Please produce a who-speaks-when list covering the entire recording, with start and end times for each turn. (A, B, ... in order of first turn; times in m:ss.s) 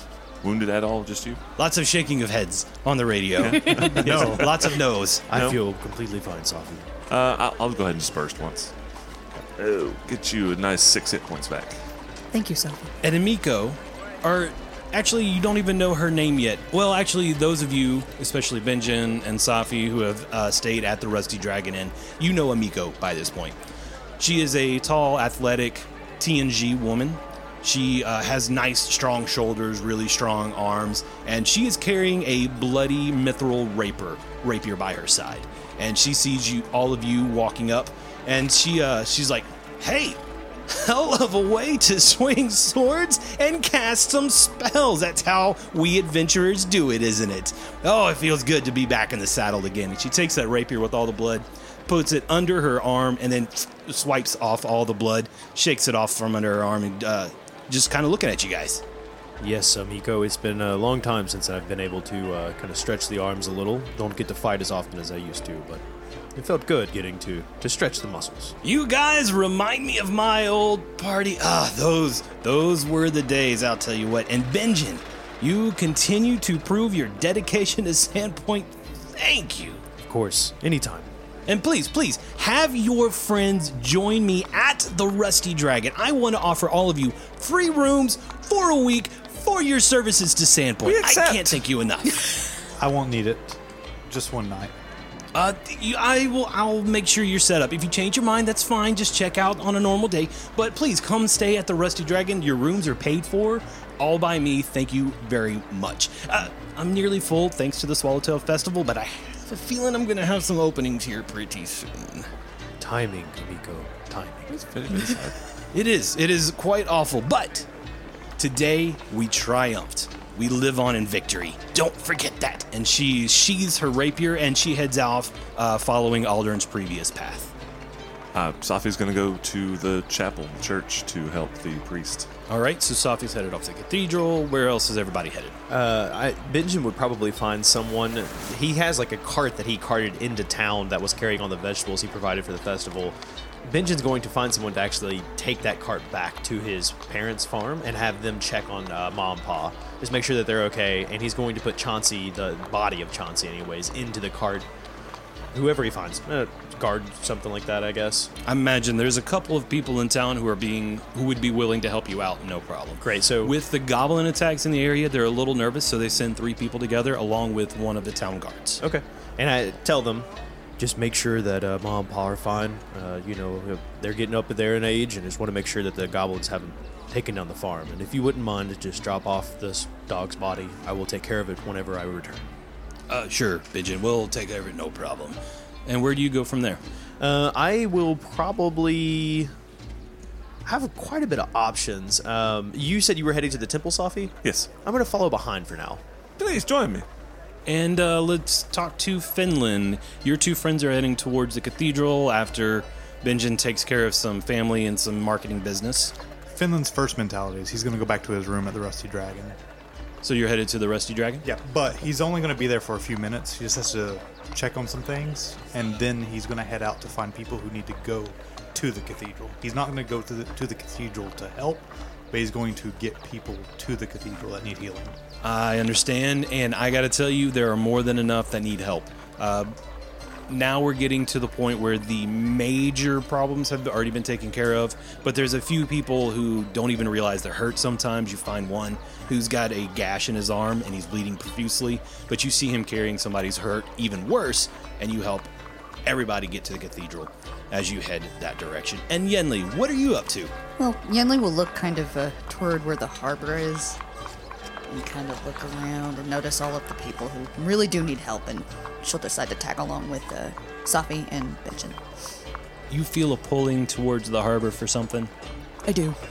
0:00.4-0:01.4 A
0:01.6-0:05.2 B
0:03.4-0:04.7 A
0:04.0-0:04.5 C
0:05.3-0:06.9 D
0:05.3-0:05.6 A
0:07.1-0:08.7 A
0:09.6-0:11.8 A
0:12.3-0:12.9 E
0:13.0-0:23.6 B
0:24.2-0:58.8 B
0:59.4-1:05.8 D
1:06.3-1:08.5 D
1:08.6-1:19.8 B
1:20.0-1:21.1 D
1:21.5-1:32.2 B
1:30.8-1:31.6 A
1:32.8-1:34.7 C
1:35.3-1:52.3 B
1:52.8-1:54.5 D
1:54.5-1:55.4 A
1:55.7-1:57.7 B
1:58.4-2:07.5 B
2:08.3-2:12.3 A
2:12.5-2:15.6 B
2:15.7-2:34.6 D
2:35.5-2:38.3 D
2:38.4-2:48.8 B
2:43.0-2:43.5 D
2:48.8-3:02.4 D
3:03.1-3:06.8 B
3:07.2-3:09.5 D
3:10.6-3:16.0 D
3:14.4-3:14.7 A
3:16.4-3:17.0 A
3:17.7-3:26.1 B
3:26.5-3:29.6 C
3:30.2-3:31.4 B
3:31.4-3:45.2 C
3:45.4-3:49.7 B
3:50.5-4:05.5 B
4:06.0-4:10.5 B
4:10.8-4:14.0 E
4:14.9-4:22.0 E
4:22.9-4:25.3 B
4:25.8-4:26.2 E